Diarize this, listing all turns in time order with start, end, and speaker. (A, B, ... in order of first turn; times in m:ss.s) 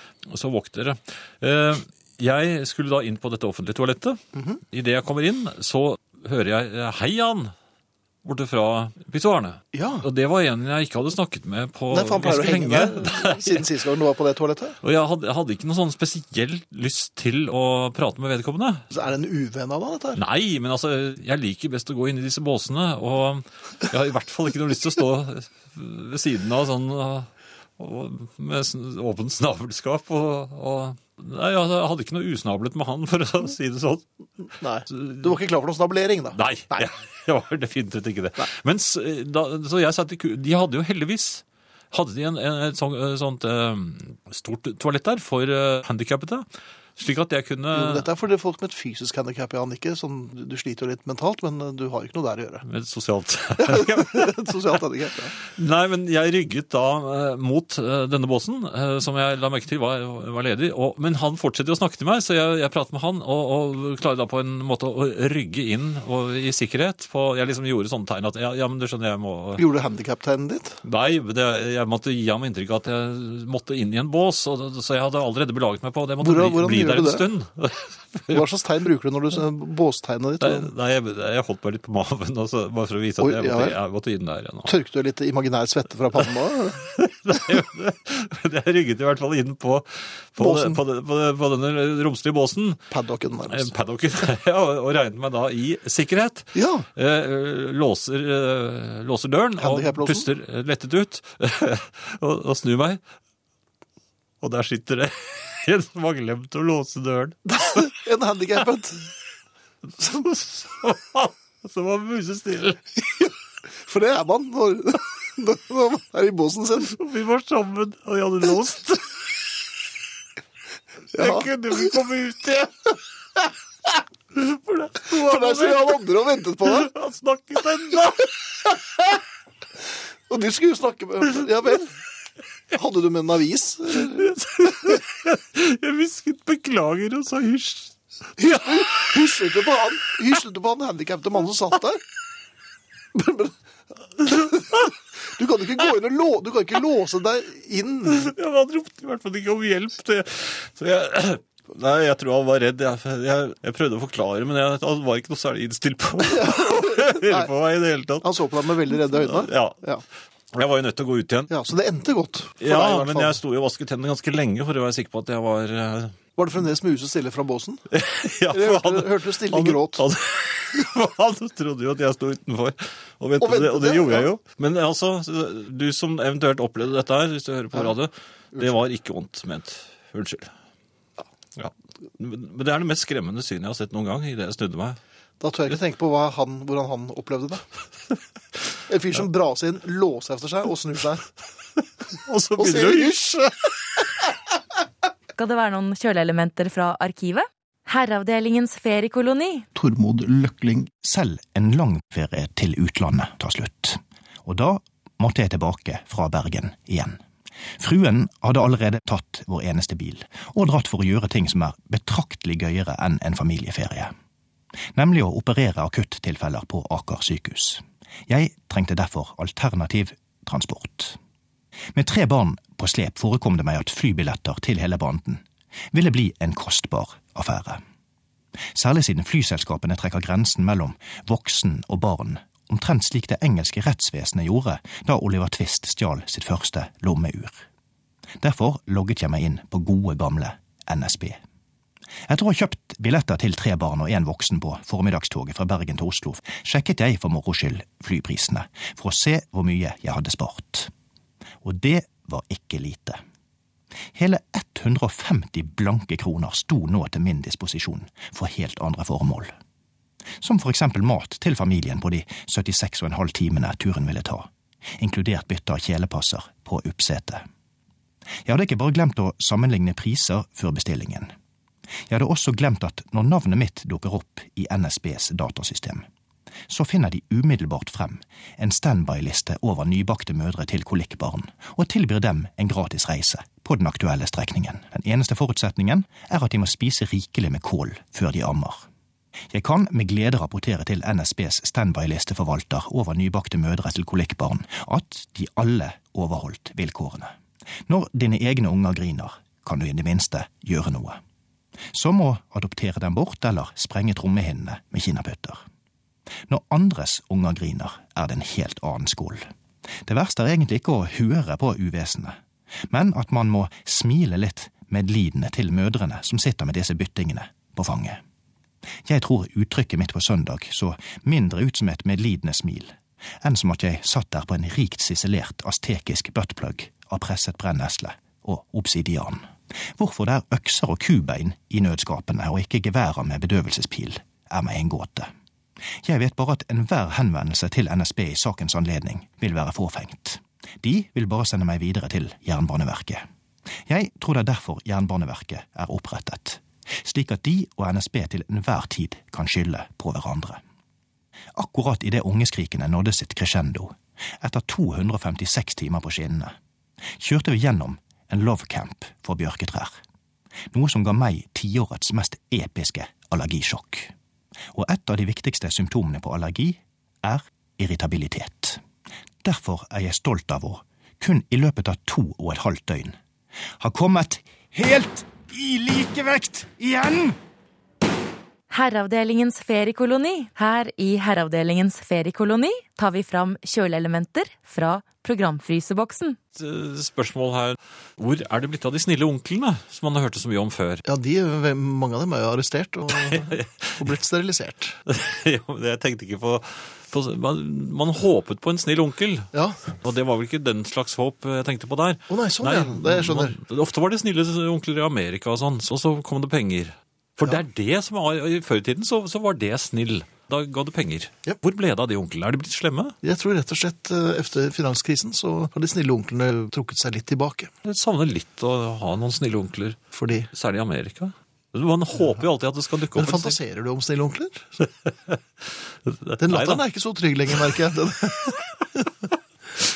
0:00.2-0:07.5 A
0:04.3-0:04.6 B
0:08.2-0:13.6 A
0:09.7-0:10.1 B
0:11.9-0:14.8 B
0:14.8-0:18.8 A
0:18.9-0:20.2 B
0:20.2-0:34.0 A
0:34.6-0:36.9 B
0:35.0-0:35.2 A
0:36.3-0:46.4 A
0:47.0-0:48.1 A
0:47.7-0:52.6 B
0:52.6-0:54.4 A
0:53.6-0:55.4 B
0:55.4-1:09.6 A
1:09.6-1:10.8 B
1:10.8-1:18.4 A
1:16.2-1:17.3 B
1:18.3-1:20.7 B
1:20.4-1:24.7 A
1:23.2-1:23.8 B
1:24.6-1:26.9 B
1:26.9-1:32.8 A
1:30.4-1:30.8 B
1:32.9-1:33.7 B
1:33.5-1:43.0 A
1:36.5-1:36.9 B
1:39.6-1:40.3 B
1:44.4-1:47.5 A
1:47.5-1:49.1 B
1:50.0-1:53.0 A
1:53.8-1:57.0 B
1:56.9-1:59.4 A
2:01.1-2:03.0 A
2:01.1-2:01.5 B
2:04.3-2:06.0 A
2:05.1-2:06.9 B
2:06.6-2:08.7 A
2:10.3-2:11.9 B
2:12.7-2:14.3 B
2:14.0-2:17.9 A
2:18.4-2:22.0 B
2:23.1-2:23.6 B
2:24.2-2:28.3 B
2:28.1-2:38.3 A
2:36.2-2:37.5 B
2:38.2-2:40.0 B
2:39.1-2:39.8 A
2:40.5-2:41.5 A
2:41.5-2:43.4 B
2:42.6-2:46.1 A
2:46.4-2:47.8 B
2:47.9-3:00.5 A
2:48.5-2:50.0 B
2:53.4-2:54.3 B
3:01.6-3:05.0 A
3:05.4-3:07.6 B
3:08.9-3:11.3 B
3:12.1-3:14.0 A
3:12.6-3:13.4 B
3:15.3-3:19.7 C
3:19.7-3:20.9 B
3:21.0-3:27.2 D
3:27.8-3:34.1 D
3:34.9-3:41.2 D
3:41.9-3:47.8 D
3:48.7-3:57.6 D
3:58.4-4:01.4 D
4:02.3-4:10.9 D
4:11.6-4:13.2 D
4:14.1-4:19.5 D
4:20.4-4:24.5 D
4:25.0-4:27.4 D
4:28.4-4:31.3 D
4:32.1-4:36.0 D
4:36.7-4:48.8 D
4:49.5-4:57.3 D
4:57.8-5:01.2 D
5:01.9-5:05.6 D
5:06.5-5:09.4 D
5:10.0-5:12.4 D
5:12.9-5:18.2 D
5:19.0-5:29.4 D
5:30.0-5:35.3 D
5:36.0-5:43.2 D
5:43.9-5:50.6 D
5:51.6-5:56.5 D
5:57.2-5:59.9 D
6:00.7-6:04.1 D
6:04.7-6:08.8 D
6:09.4-6:13.1 D
6:13.8-6:17.3 D
6:18.7-6:26.4 C
6:26.5-6:31.0 A
6:31.0-6:35.0 B
6:33.3-6:33.7 A
6:35.1-6:39.5 A
6:39.5-6:39.9 B
6:40.0-6:53.2 A
6:42.3-6:43.6 B
6:53.2-6:57.7 B
6:57.8-7:00.0 A
7:00.1-7:00.5 B
7:00.5-7:03.6 A
7:03.1-7:04.7 B
7:05.1-7:05.4 A
7:06.0-7:06.8 A
7:06.4-7:08.8 B